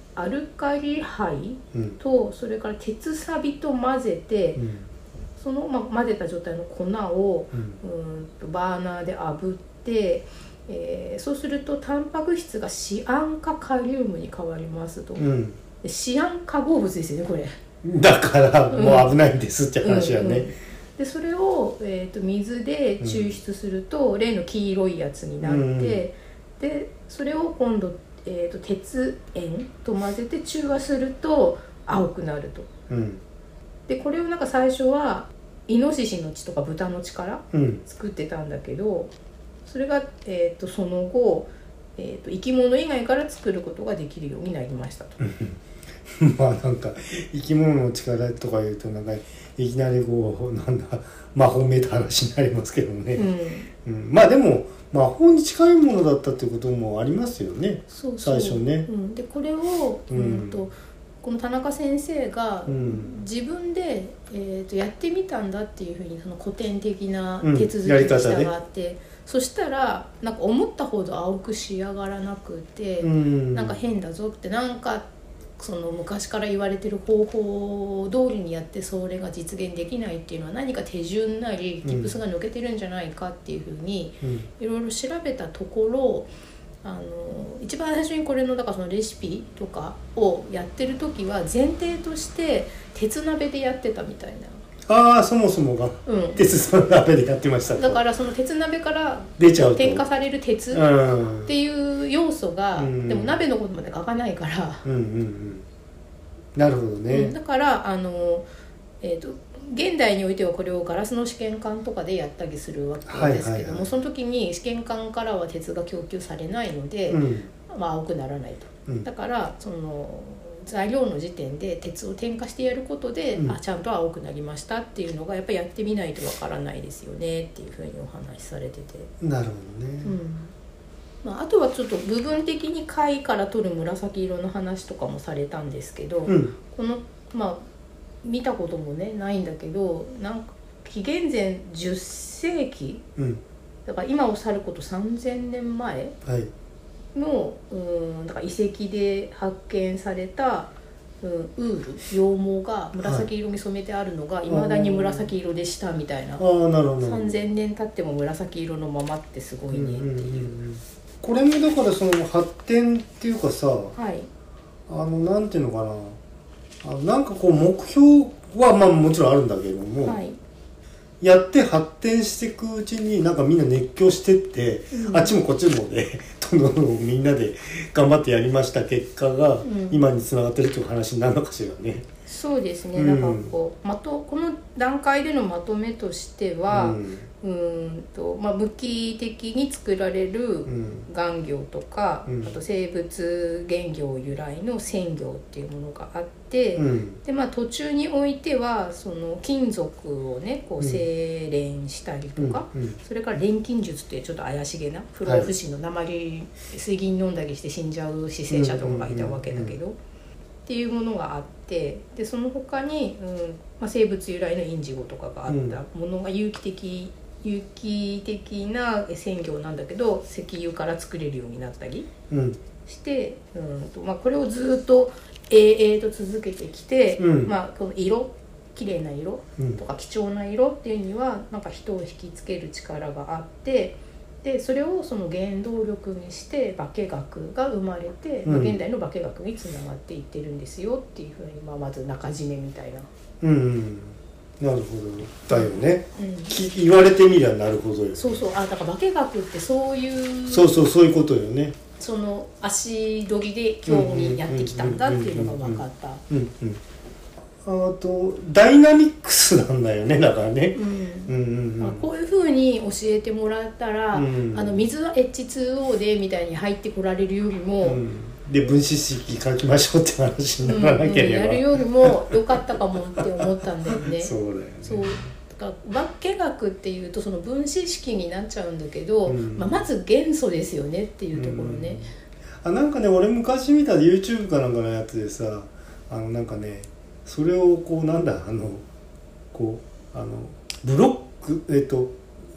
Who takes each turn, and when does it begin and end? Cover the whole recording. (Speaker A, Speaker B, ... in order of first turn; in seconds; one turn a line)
Speaker A: 0.1-4.6
Speaker B: 4.5-4.9
Speaker A: 5.4-15.2
Speaker B: 7.5-7.8
Speaker B: 15.2-15.6
Speaker A: 15.8-17.5
Speaker B: 17.8-20.5
Speaker A: 18.7-19.1
Speaker A: 19.8-32.7
Speaker B: 23.0-23.4
Speaker B: 25.4-26.0
Speaker B: 32.9-33.2
Speaker A: 33.9-39.1
Speaker B: 37.5-37.8
Speaker A: 39.6-45.2
Speaker B: 45.2-45.6
Speaker B: 46.2-53.3
Speaker A: 53.1-53.7
Speaker B: 53.8-58.9
Speaker A: 57.9-75.1
Speaker B: 60.1-60.6
Speaker B: 62.7-63.2
Speaker B: 67.4-68.5
Speaker B: 73.0-73.8
Speaker A: 75.6-86.3
Speaker B: 81.8-82.2
Speaker B: 84.2-84.5
Speaker A: 86.8-94.6
Speaker B: 94.9-98.0
Speaker A: 96.0-96.5
Speaker A: 97.7-100.9
Speaker B: 99.4-100.0
Speaker B: 100.7-101.5
Speaker A: 101.4-104.8
Speaker B: 102.8-103.4
Speaker B: 104.8-105.6
Speaker B: 106.5-107.3
Speaker A: 107.1-108.5
Speaker A: 109.0-129.1
Speaker B: 113.1-113.9
Speaker B: 117.1-117.5
Speaker B: 129.2-130.2
Speaker A: 130.0-130.5
Speaker A: 131.2-137.6
Speaker B: 136.3-136.6
Speaker A: 138.2-143.0
Speaker A: 143.8-146.2
Speaker B: 146.2-146.5
Speaker A: 147.1-156.4
Speaker B: 153.0-153.3
Speaker B: 154.5-155.3
Speaker B: 156.4-157.4
Speaker A: 157.0-160.5
Speaker B: 159.7-163.9
Speaker A: 163.9-164.3
Speaker B: 164.9-166.2
Speaker B: 166.8-170.2
Speaker A: 170.0-170.4
Speaker B: 171.2-182.1
Speaker A: 174.9-175.4
Speaker A: 179.6-180.0
Speaker A: 182.2-209.9
Speaker B: 182.9-183.5
Speaker B: 186.7-187.3
Speaker B: 190.7-191.1
Speaker B: 192.2-192.6
Speaker B: 196.8-197.2
Speaker B: 202.4-203.0
Speaker B: 208.5-209.8
Speaker A: 210.7-222.1
Speaker B: 215.5-215.8
Speaker B: 222.3-222.6
Speaker A: 222.8-243.1
Speaker B: 227.2-227.5
Speaker B: 238.4-238.8
Speaker B: 243.4-248.4
Speaker A: 245.5-246.5
Speaker A: 248.2-250.7
Speaker B: 250.5-251.8
Speaker A: 252.0-256.2
Speaker B: 253.9-256.8
Speaker B: 257.6-262.1
Speaker A: 260.7-268.0
Speaker B: 264.1-264.9
Speaker B: 267.8-275.3
Speaker A: 270.6-282.1
Speaker B: 279.2-279.9
Speaker B: 281.3-282.1
Speaker B: 282.6-288.8
Speaker B: 289.5-292.2